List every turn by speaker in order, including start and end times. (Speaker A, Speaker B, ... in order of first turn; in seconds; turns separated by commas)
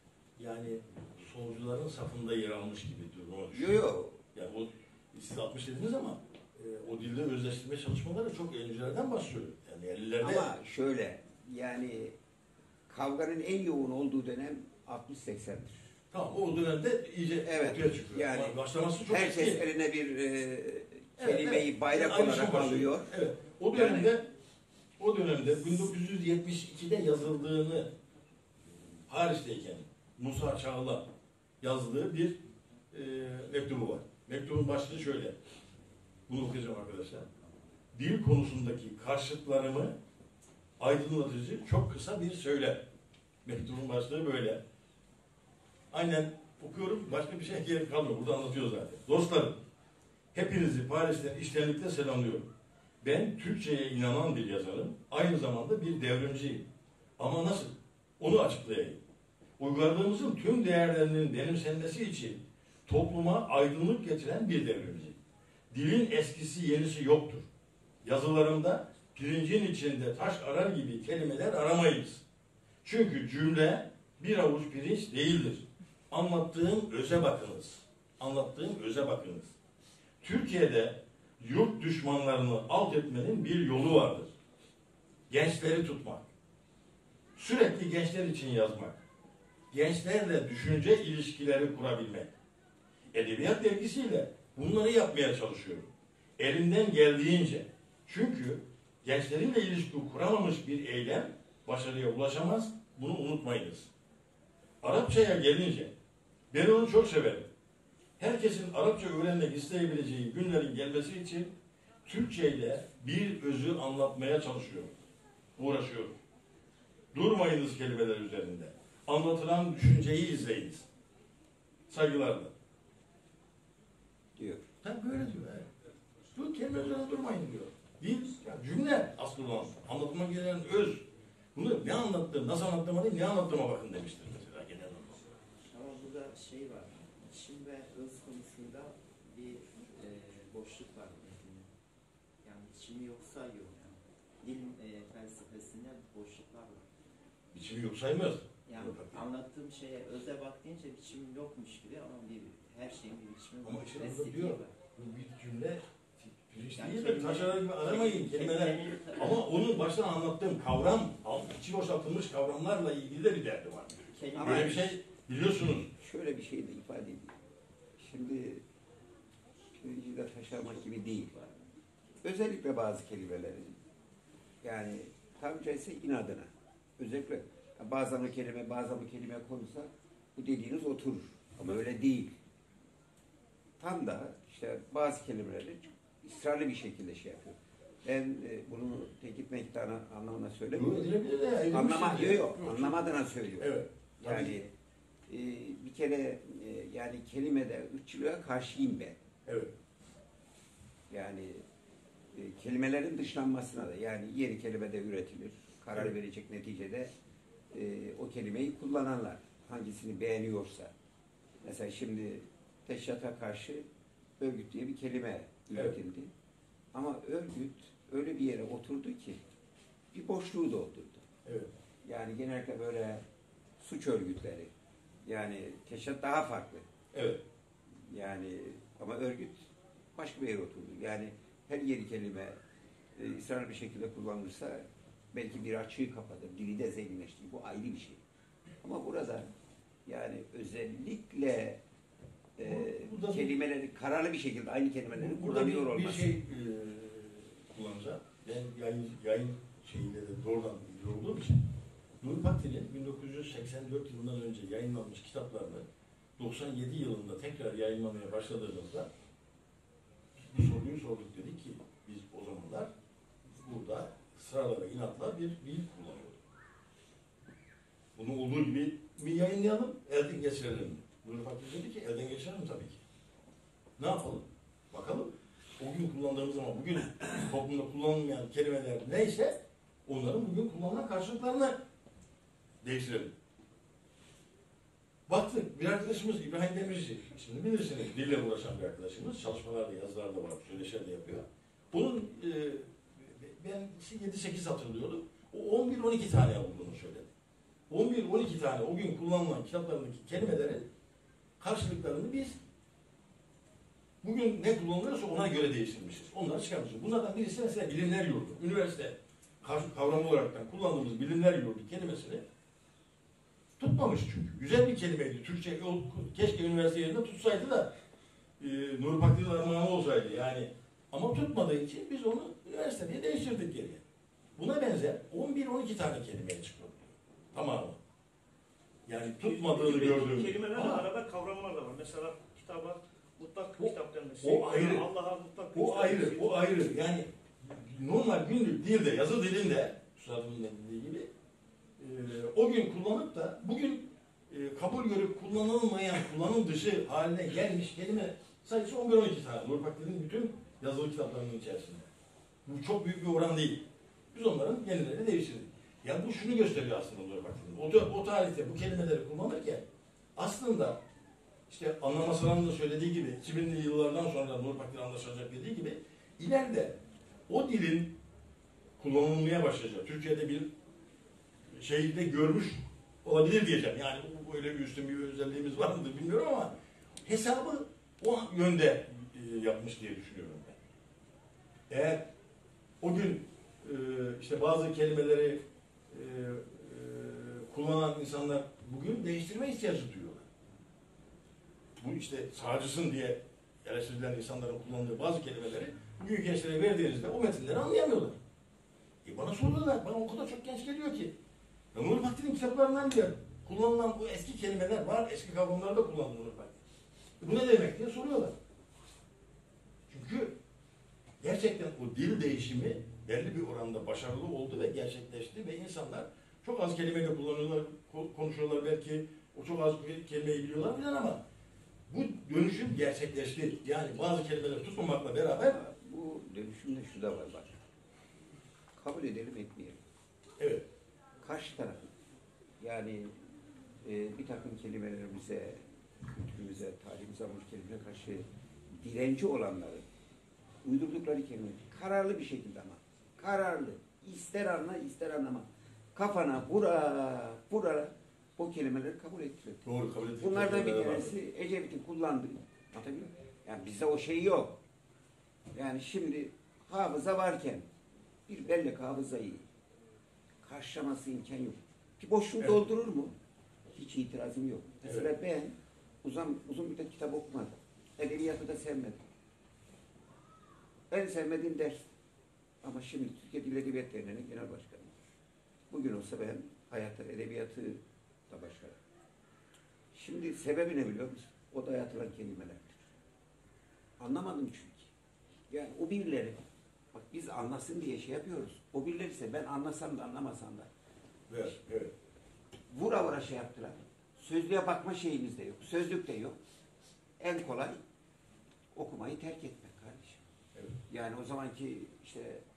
Speaker A: 0.4-3.8, Speaker B: 3.5-4.2, Speaker A: 4.3-10.5, Speaker B: 10.2-12.2, Speaker B: 12.9-15.8, Speaker A: 16.1-19.6, Speaker B: 17.4-18.6, Speaker B: 19.1-23.1, Speaker A: 21.2-24.3, Speaker B: 23.7-24.1, Speaker A: 25.0-27.9, Speaker A: 29.1-31.1, Speaker A: 31.6-32.4, Speaker A: 32.9-35.4, Speaker A: 36.3-37.3, Speaker A: 37.9-40.0, Speaker A: 40.8-42.8, Speaker A: 43.4-44.6, Speaker A: 45.9-49.6, Speaker A: 50.3-59.0, Speaker A: 59.6-65.2, Speaker A: 65.7-67.5, Speaker A: 68.0-72.2, Speaker A: 72.8-79.5, Speaker A: 80.2-84.3, Speaker A: 85.3-86.3, Speaker A: 87.3-89.0, Speaker A: 89.7-92.3, Speaker A: 93.1-103.9, Speaker A: 104.8-105.9, Speaker A: 106.5-107.5, Speaker A: 108.2-111.5, Speaker A: 112.0-114.9, Speaker A: 115.5-116.2, Speaker A: 117.1-120.9, Speaker A: 121.9-122.5, Speaker B: 124.3-124.6, Speaker A: 124.8-125.7, Speaker A: 126.3-135.2, Speaker C: 135.7-141.7, Speaker C: 142.4-146.9, Speaker A: 147.5-149.2, Speaker C: 148.7-154.7, Speaker A: 153.6-155.8, Speaker A: 156.5-165.9, Speaker C: 156.6-159.6, Speaker C: 164.1-165.0, Speaker B: 166.0-167.3, Speaker B: 168.0-168.6, Speaker B: 169.8-171.3, Speaker C: 171.3-171.6, Speaker B: 172.2-173.8, Speaker B: 174.6-182.3, Speaker B: 183.8-191.0, Speaker A: 190.7-193.1, Speaker B: 191.7-194.7, Speaker A: 193.6-194.6, Speaker B: 195.3-199.2, Speaker A: 199.4-199.7, Speaker B: 201.1-201.6, Speaker B: 202.3-207.1, Speaker B: 207.7-210.9, Speaker B: 211.6-213.9, Speaker B: 214.4-216.3, Speaker B: 216.9-219.4, Speaker B: 220.1-221.2, Speaker A: 221.4-221.7, Speaker B: 222.0-223.2, Speaker B: 223.8-224.7, Speaker B: 225.2-226.9, Speaker A: 227.1-227.4, Speaker B: 228.1-232.6, Speaker B: 233.1-238.2, Speaker B: 238.8-239.5, Speaker B: 240.1-241.8, Speaker B: 242.6-246.3, Speaker A: 242.6-243.6, Speaker A: 245.1-251.7, Speaker A: 252.2-255.8, Speaker A: 256.4-259.1, Speaker A: 260.4-262.9, Speaker A: 263.4-266.4, Speaker A: 268.1-273.0, Speaker A: 274.0-281.8, Speaker A: 282.8-283.3, Speaker A: 285.3-297.3, Speaker A: 297.9-300.9, Speaker A: 301.6-302.6, Speaker A: 304.2-312.4, Speaker A: 313.8-317.9, Speaker A: 318.6-324.0, Speaker A: 324.6-328.0, Speaker A: 329.1-331.1, Speaker D: 329.4-336.7, Speaker A: 333.8-335.1, Speaker A: 335.7-341.3, Speaker A: 342.0-352.0, Speaker A: 352.6-359.8, Speaker A: 360.3-361.0, Speaker A: 361.7-368.1, Speaker A: 369.0-370.7, Speaker A: 371.7-376.7, Speaker A: 377.2-380.8, Speaker A: 381.9-382.3, Speaker A: 383.0-390.5, Speaker A: 392.0-398.4, Speaker A: 399.2-401.3, Speaker A: 401.9-406.8, Speaker A: 407.4-408.6, Speaker A: 410.1-410.6, Speaker A: 411.4-421.4, Speaker A: 422.1-425.8, Speaker B: 425.6-427.8, Speaker B: 428.9-430.0, Speaker A: 430.6-430.9, Speaker B: 431.4-432.1, Speaker B: 432.8-433.3, Speaker B: 434.0-440.0, Speaker B: 440.8-454.8, Speaker A: 449.8-451.4, Speaker B: 455.7-457.9, Speaker B: 458.5-459.6, Speaker B: 460.6-463.3, Speaker B: 463.9-469.2, Speaker A: 465.0-465.3, Speaker B: 471.1-472.1, Speaker B: 472.8-475.1, Speaker B: 475.9-479.0, Speaker B: 480.1-482.9, Speaker B: 484.2-485.1, Speaker B: 485.7-486.6, Speaker B: 487.1-490.9, Speaker A: 491.5-492.1, Speaker B: 492.9-496.6, Speaker B: 497.4-498.0, Speaker B: 498.9-500.4, Speaker B: 501.1-502.6